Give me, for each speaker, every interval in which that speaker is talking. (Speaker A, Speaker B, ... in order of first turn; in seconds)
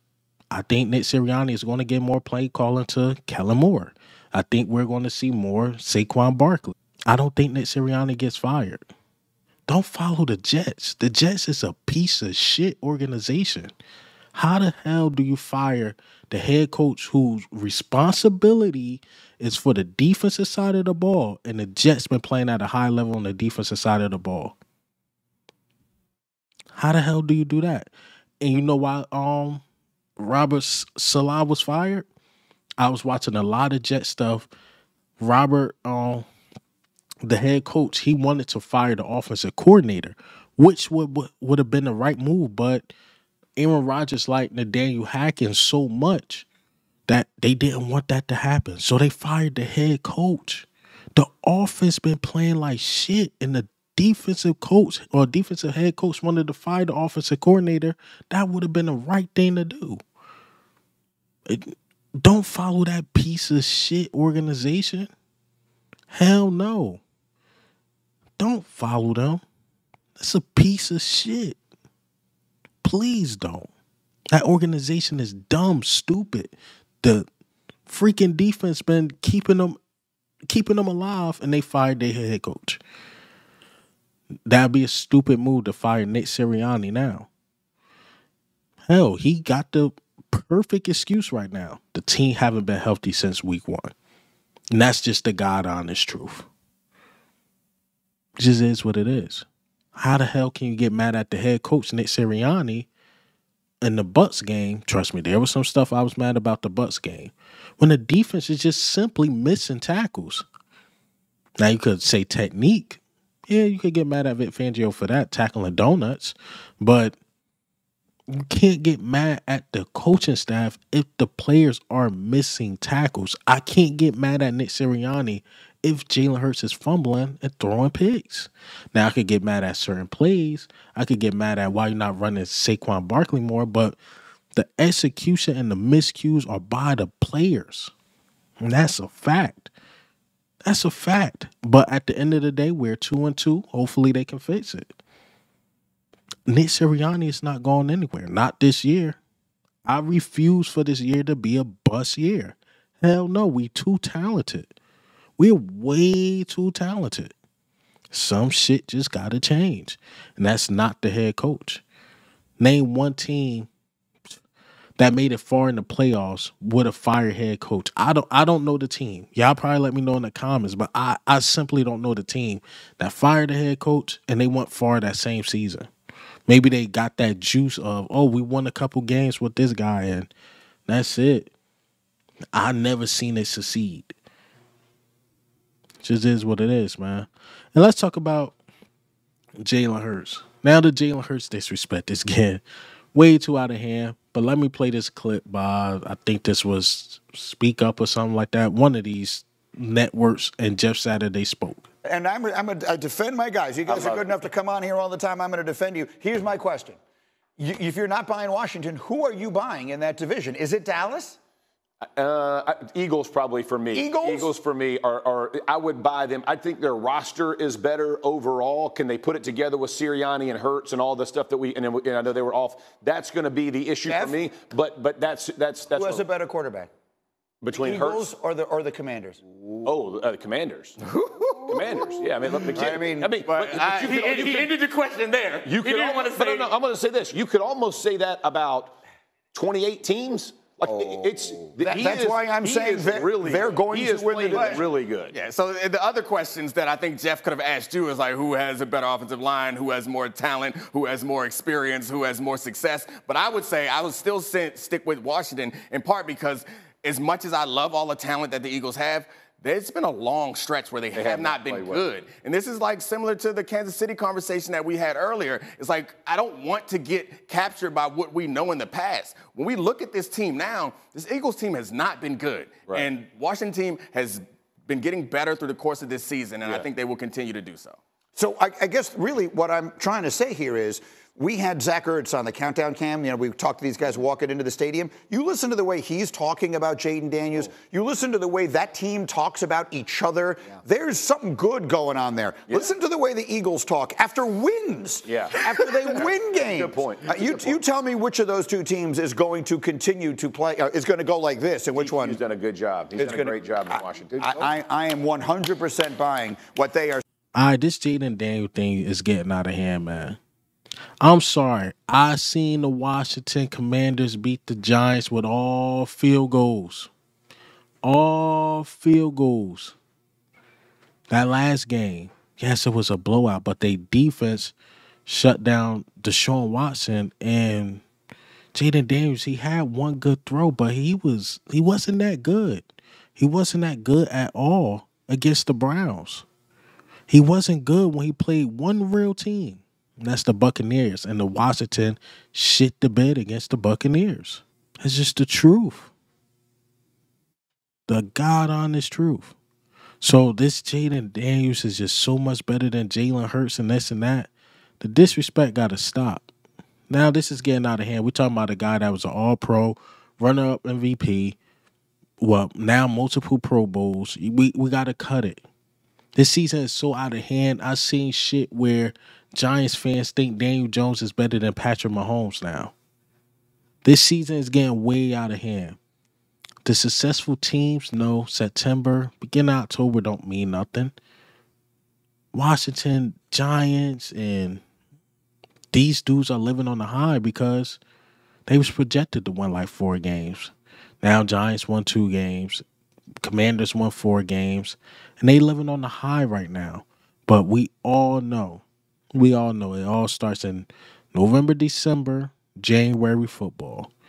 Speaker A: 0.5-8.8, 9.7-13.7, 14.3-24.6, 26.7-27.9, 28.4-29.6, 30.2-32.0, 32.8-34.5, 35.2-36.3, 37.2-42.9, 43.6-46.5, 47.1-60.0, 61.5-65.1, 66.1-67.0, 68.4-69.4, 70.2-71.6, 72.8-73.7, 74.3-77.3, 77.9-79.8, 80.5-82.8, 84.5-87.3, 88.9-93.9, 94.7-96.5, 98.4-102.9, 103.8-110.4, 111.6-117.2, 118.3-134.0, 134.6-137.9, 138.6-139.7, 140.6-144.9, 146.5-149.2, 149.8-154.7, 155.4-157.3, 158.1-161.8, 162.6-163.7, 165.0-175.9, 176.5-180.3, 180.9-181.5, 182.5-184.1, 186.0-188.6, 189.6-192.6, 193.1-201.9, 307.5-310.4, 311.2-317.1, 318.0-320.0, 321.3-324.7, 325.2-328.0, 328.7-332.8, 333.4-336.4, 337.3-346.1, 348.1-349.6, 350.2-356.5, 357.1-361.6, 362.4-365.6, 366.4-372.9, 374.0-376.0, 376.8-381.1, 382.5-384.8, 385.9-388.0, 388.7-392.8, 393.4-404.1
Speaker B: 202.1-207.0, 207.6-211.4, 213.9-214.5, 224.1-224.4, 225.9-226.9, 227.7-229.4, 232.7-233.3, 241.8-244.9, 278.4-302.4, 303.2-307.2
Speaker C: 203.9-204.4, 212.2-226.3, 227.6-228.3, 229.7-231.0, 231.6-234.8, 235.6-239.0, 239.5-245.3, 261.1-262.1, 292.7-292.9, 295.2-297.8, 301.9-304.7
Speaker D: 231.5-232.7, 233.4-236.7, 245.3-278.0